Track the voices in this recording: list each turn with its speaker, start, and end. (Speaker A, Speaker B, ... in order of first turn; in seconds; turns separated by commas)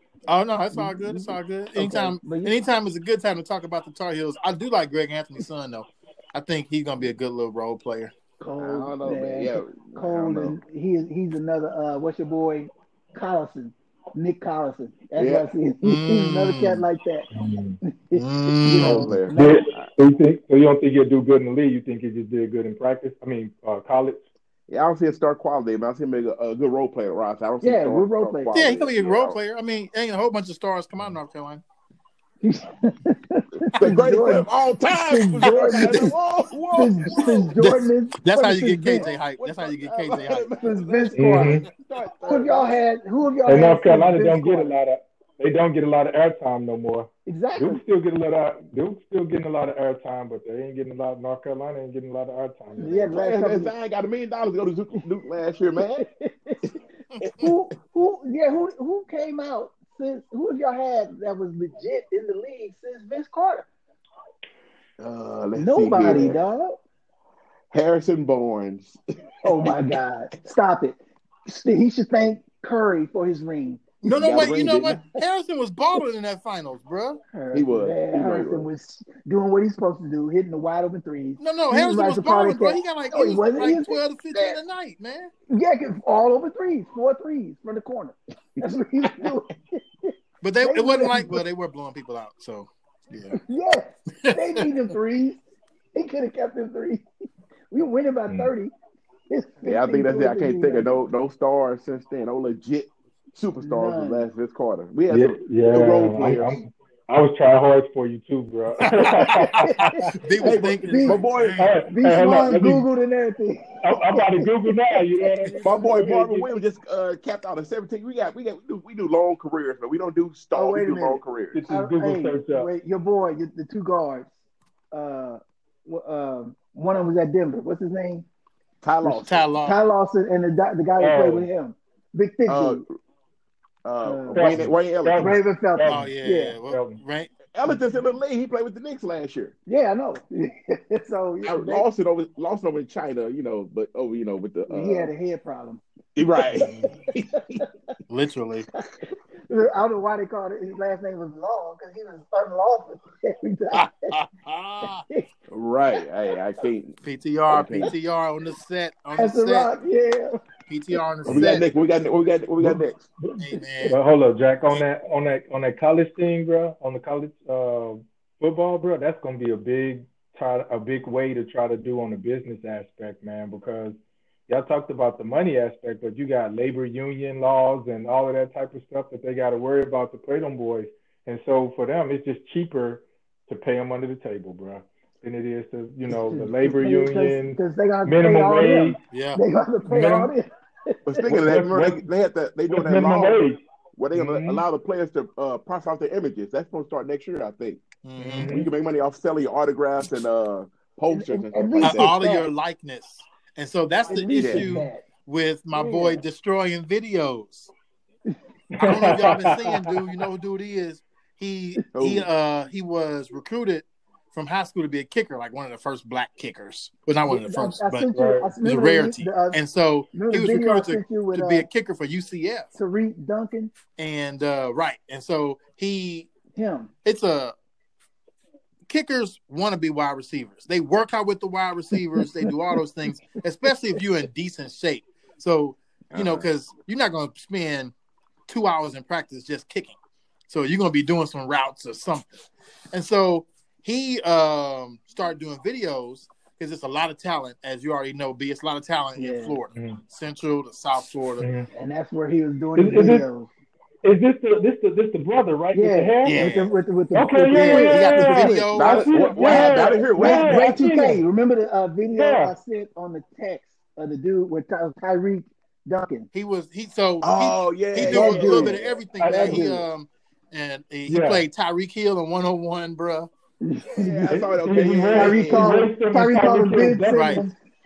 Speaker A: 0.3-8.1, Speaker B: 0.7-2.5, Speaker B: 8.4-17.3, Speaker C: 8.6-10.6, Speaker C: 15.2-15.5, Speaker A: 15.8-16.8, Speaker D: 17.3-17.8, Speaker B: 17.8-19.7, Speaker A: 18.1-19.1, Speaker C: 18.7-19.9, Speaker D: 19.3-24.2, Speaker C: 24.7-29.4, Speaker B: 27.6-28.6, Speaker A: 28.5-31.6, Speaker B: 32.4-36.1, Speaker C: 33.7-37.5, Speaker A: 35.5-36.0, Speaker B: 36.7-39.1, Speaker A: 37.2-40.5, Speaker C: 39.0-42.8, Speaker B: 40.6-41.6, Speaker D: 41.2-41.6, Speaker B: 42.3-44.7, Speaker D: 43.5-53.1, Speaker B: 47.3-47.8, Speaker B: 52.8-53.7, Speaker C: 52.9-56.0, Speaker B: 56.0-56.7, Speaker A: 57.1-57.5, Speaker B: 57.2-63.7, Speaker C: 65.0-66.4, Speaker B: 65.6-66.8, Speaker C: 67.7-69.8, Speaker B: 69.4-73.8, Speaker A: 74.0-77.2, Speaker C: 74.0-75.0, Speaker B: 77.3-84.6, Speaker C: 77.5-78.7, Speaker A: 81.4-85.3, Speaker B: 85.5-91.4, Speaker A: 90.4-93.4, Speaker B: 93.3-95.4, Speaker A: 94.2-94.7, Speaker B: 96.0-97.0, Speaker B: 97.7-98.7, Speaker B: 99.3-101.0, Speaker C: 99.6-106.6, Speaker B: 103.6-104.3, Speaker D: 105.1-110.0, Speaker A: 108.8-111.7, Speaker B: 109.2-111.2, Speaker C: 110.4-111.7, Speaker D: 111.6-112.9, Speaker B: 111.9-116.1, Speaker D: 113.8-116.5, Speaker C: 115.6-121.6, Speaker B: 120.5-124.3, Speaker D: 121.5-122.7, Speaker B: 124.9-128.3, Speaker C: 128.8-129.5, Speaker B: 129.1-132.8, Speaker A: 129.1-129.8, Speaker D: 131.0-131.5, Speaker C: 132.5-132.9, Speaker C: 133.8-135.4, Speaker B: 134.0-134.6, Speaker D: 134.3-136.1, Speaker B: 135.2-136.6, Speaker A: 135.9-137.3, Speaker D: 136.7-137.0, Speaker C: 137.5-139.5, Speaker B: 139.7-141.9, Speaker C: 141.4-145.1, Speaker B: 144.7-145.8, Speaker C: 146.2-147.6, Speaker B: 146.4-147.7, Speaker A: 146.6-146.9, Speaker A: 148.1-148.7, Speaker B: 149.0-153.9, Speaker A: 153.8-155.0, Speaker B: 154.8-155.3, Speaker C: 155.5-157.0, Speaker A: 157.0-159.7, Speaker C: 157.5-157.9, Speaker B: 159.2-160.4, Speaker A: 160.7-161.7, Speaker C: 161.2-163.0, Speaker B: 163.2-163.6, Speaker A: 163.4-164.0, Speaker D: 163.9-174.0, Speaker D: 174.5-189.0, Speaker B: 186.1-191.2, Speaker A: 189.1-189.4, Speaker D: 189.9-190.3, Speaker C: 191.1-193.4, Speaker D: 191.3-192.1, Speaker D: 192.7-193.6, Speaker C: 193.9-197.8, Speaker D: 194.2-194.6, Speaker A: 198.0-198.5, Speaker D: 198.2-198.7, Speaker C: 198.4-202.1, Speaker B: 201.1-202.5, Speaker A: 201.8-207.7, Speaker B: 204.1-205.0, Speaker C: 204.4-204.7, Speaker B: 205.7-206.2, Speaker D: 208.7-209.9, Speaker A: 208.8-218.1, Speaker C: 211.9-212.3, Speaker B: 217.3-219.6, Speaker D: 218.1-218.5, Speaker A: 218.6-222.7, Speaker B: 220.1-221.7, Speaker B: 222.8-223.7, Speaker A: 224.0-226.3, Speaker B: 226.6-226.9, Speaker A: 227.1-227.5, Speaker A: 228.9-237.9, Speaker C: 236.1-236.5, Speaker A: 238.5-240.0, Speaker A: 240.5-242.3, Speaker A: 242.9-251.5, Speaker B: 249.2-249.6, Speaker D: 249.8-250.0, Speaker D: 251.4-251.7, Speaker B: 251.7-253.5, Speaker D: 252.8-253.3, Speaker D: 254.0-256.5, Speaker B: 255.7-258.7, Speaker A: 256.2-256.7, Speaker D: 257.1-261.2, Speaker A: 257.5-260.0, Speaker C: 258.7-260.8, Speaker B: 259.5-266.3, Speaker D: 262.2-262.5, Speaker A: 266.3-273.3, Speaker C: 267.2-269.8, Speaker B: 268.0-268.8, Speaker D: 269.2-269.7, Speaker D: 271.1-271.4, Speaker B: 273.6-274.4, Speaker C: 273.9-275.8, Speaker D: 274.3-277.5, Speaker B: 275.1-277.6, Speaker A: 277.1-277.4